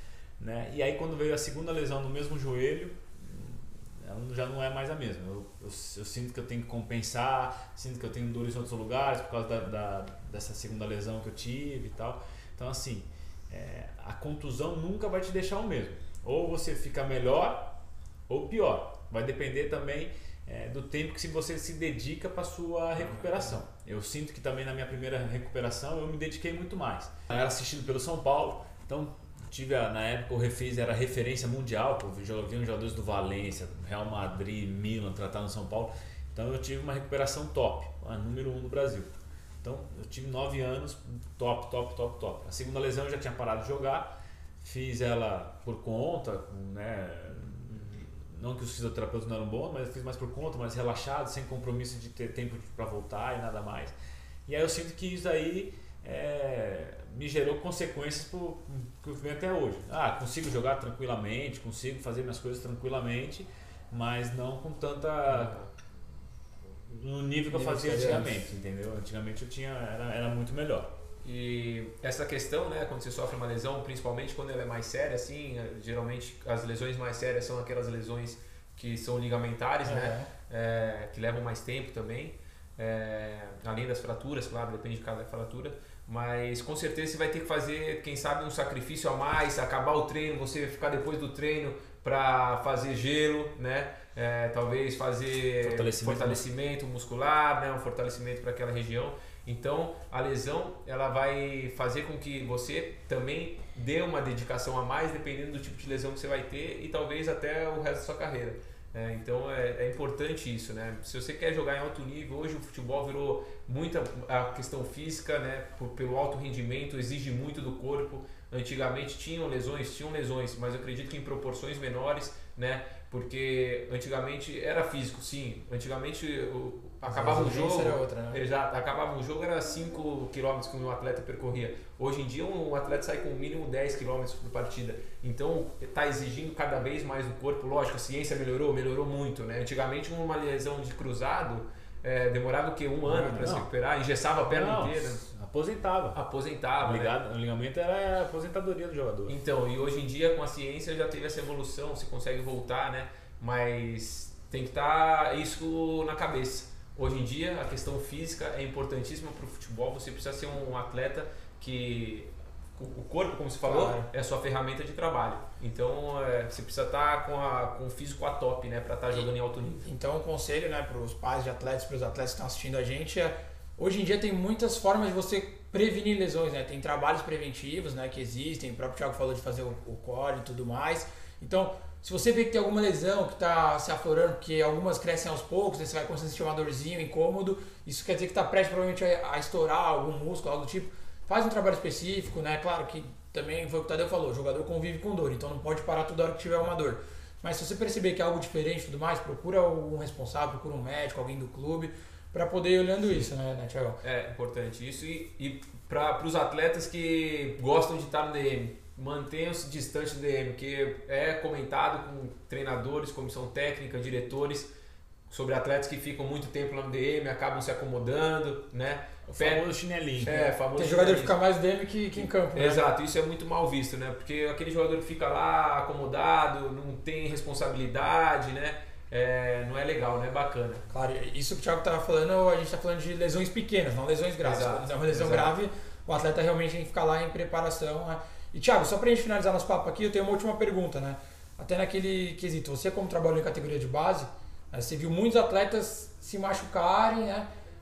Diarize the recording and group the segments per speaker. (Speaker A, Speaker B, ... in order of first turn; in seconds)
Speaker A: 0.4-53.9, 54.5-65.6, 66.9-70.9, 95.6-96.4, 143.0-143.7, 144.5-146.2, 146.8-149.3, 219.3-220.4
Speaker B: 65.3-65.7, 67.6-68.3, 71.2-145.2, 146.1-147.2, 149.3-169.9, 204.0-214.7, 215.3-219.6, 220.2-221.3, 222.2-230.8, 234.4-235.5
Speaker C: 67.6-68.3, 79.8-80.3, 127.0-128.4, 163.6-164.1, 169.8-204.0, 220.7-222.8, 230.9-247.5